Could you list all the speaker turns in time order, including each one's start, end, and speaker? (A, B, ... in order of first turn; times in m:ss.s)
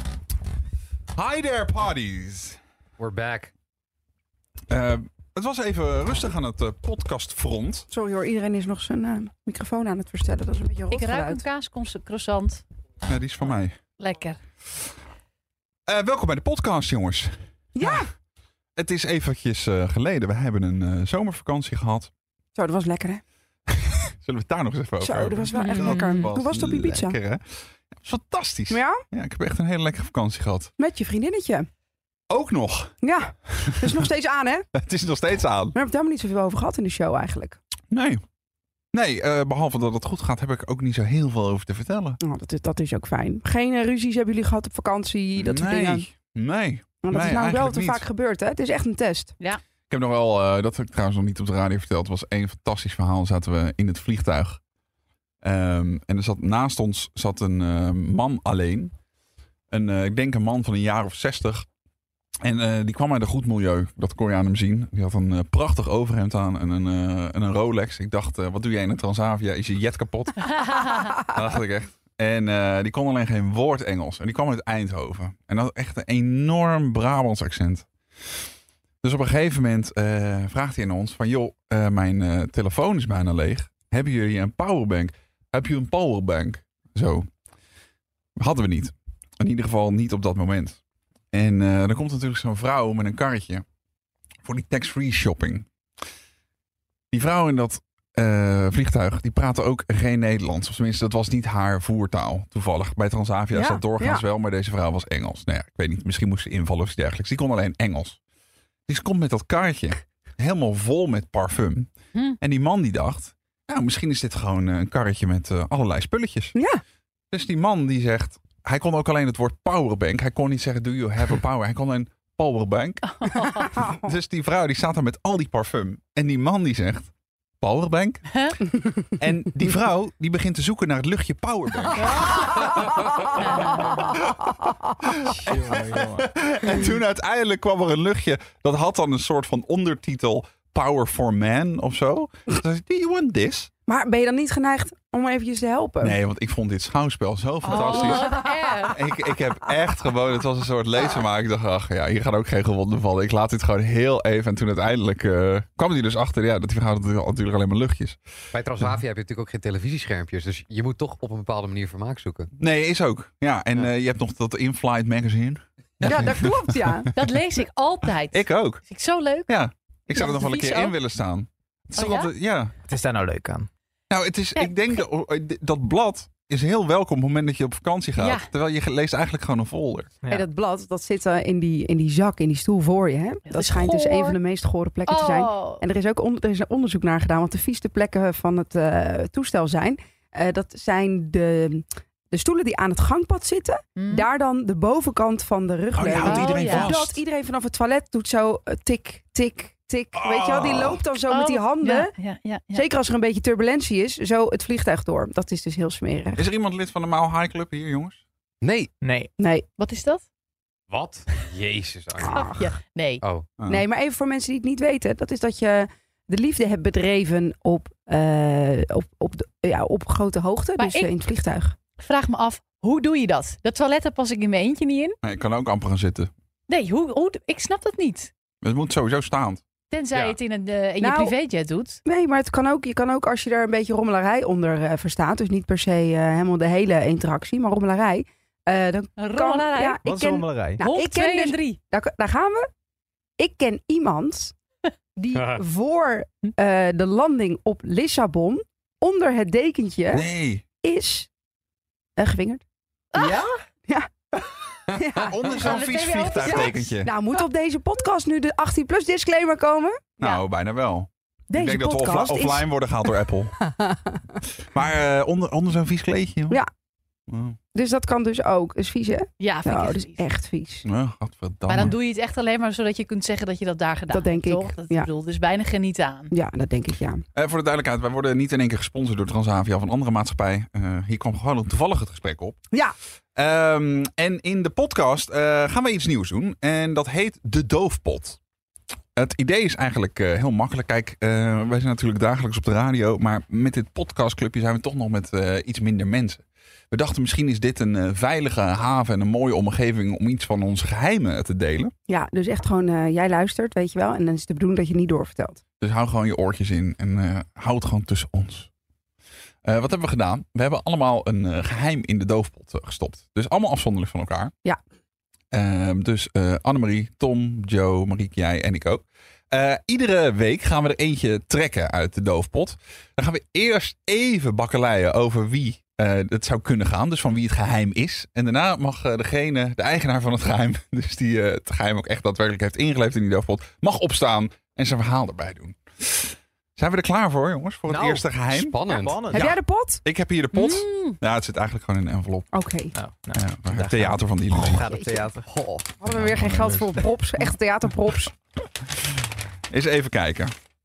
0:01.2-0:02.6 A
0:03.0-0:03.5 B
0:04.7-0:07.8 A
0:07.9-0:11.4 C
0:10.9-0:12.6 D
0:13.0-0:13.8 A
0:14.0-0:14.4 D
0:15.9-0:18.0 A
0:17.7-0:18.0 C
0:18.8-0:22.1 A
0:22.6-0:23.2 C
0:23.8-0:27.4 A
0:25.0-0:27.2 C
0:25.5-0:26.3 D
0:27.9-0:30.7 A
0:28.7-0:29.0 C
0:30.8-0:31.7 C
0:32.3-0:32.9 A
0:33.0-0:34.7 C
0:33.5-0:34.0 A
0:34.7-0:35.8 A
0:35.7-0:37.6 C
0:37.9-0:38.2 A
0:38.9-0:42.2 A
0:42.2-0:46.1 C
0:45.4-0:48.0 A
0:47.0-0:49.4 C
0:49.9-0:54.6 A
0:55.4-0:58.9 A
0:59.7-1:01.7 A
1:02.4-1:17.9 A
1:19.0-1:27.3 A
1:28.4-1:30.8 A
1:31.3-1:33.6 A
1:34.4-1:35.7 A
1:37.1-1:48.2 A
1:43.5-1:44.3 C
1:48.9-1:56.6 A
1:56.5-1:56.8 C
1:57.3-2:07.1 A
2:03.2-2:03.7 D
2:03.3-2:04.1 C
2:07.6-2:08.5 A
2:09.2-2:12.2 A
2:13.4-2:14.0 D
2:13.8-2:23.7 A
2:15.2-2:16.3 E
2:23.9-2:26.2 C
2:26.0-2:28.4 A
2:27.6-2:29.0 D
2:27.9-2:28.5 C
2:28.9-2:38.2 A
2:38.5-2:42.5 B
2:42.6-2:47.1 A
2:46.0-2:47.1 C
2:47.1-2:49.5 D
2:48.3-2:48.8 A
2:49.5-2:52.7 A
2:50.1-2:51.0 D
2:51.9-2:52.3 D
2:52.9-2:53.7 E
2:54.1-3:00.2 A
2:58.2-2:58.4 D
3:00.3-3:22.1 C
3:03.5-3:04.4 D
3:05.1-3:05.8 D
3:14.0-3:14.2 D
3:15.9-3:17.2 A
3:16.1-3:16.9 D
3:20.1-3:21.0 A
3:21.3-3:22.8 D
3:22.7-3:26.5 C
3:26.4-3:28.2 A
3:28.6-3:28.9 B
3:29.0-3:29.3 E
3:29.4-3:29.6 C
3:29.8-3:30.2 D
3:30.9-3:32.5 B
3:32.2-3:32.7 C
3:32.3-3:33.2 D
3:33.2-3:33.5 B
3:33.6-3:33.8 A
3:33.7-3:41.8 C
3:40.8-3:41.1 D
3:42.0-3:45.2 D
3:45.2-3:46.3 A
3:46.7-3:48.3 D
3:48.6-3:49.6 A
3:49.9-3:52.0 D
3:51.0-3:51.3 C
3:52.0-4:02.6 C
3:59.2-4:00.0 D
4:00.0-4:00.8 E
4:00.8-4:01.8 D
4:03.4-4:04.5 C
4:05.2-4:10.3 C
4:05.3-4:05.6 B
4:10.1-4:10.7 A
4:10.8-4:11.3 C
4:12.2-4:12.6 C
4:13.1-4:13.4 D
4:13.2-4:13.5 E
4:13.9-4:20.2 C
4:15.3-4:17.1 A
4:15.4-4:16.9 D
4:20.2-4:20.4 D
4:20.2-4:23.6 A
4:21.5-4:24.2 C
4:24.7-4:26.6 A
4:27.3-4:27.6 A
4:27.8-4:30.9 C
4:29.4-4:30.2 D
4:30.8-4:32.0 A
4:31.7-4:36.3 D
4:34.1-4:35.1 C
4:36.3-4:37.2 C
4:37.4-4:42.6 A
4:43.4-4:48.4 A
4:49.2-5:01.9 A
5:02.1-5:05.6 C
5:05.8-5:08.7 A
5:09.6-5:14.5 A
5:15.5-5:38.8 A
5:37.9-5:38.3 E
5:38.5-5:39.3 B
5:38.9-5:39.5 E
5:39.3-5:40.0 C
5:39.3-5:42.5 A
5:40.5-5:41.2 D
5:42.5-5:42.9 C
5:42.9-5:45.4 E
5:43.4-5:44.9 A
5:44.8-5:45.2 C
5:45.4-5:46.0 B
5:46.0-5:48.3 C
5:46.1-5:47.1 A
5:49.7-5:50.5 A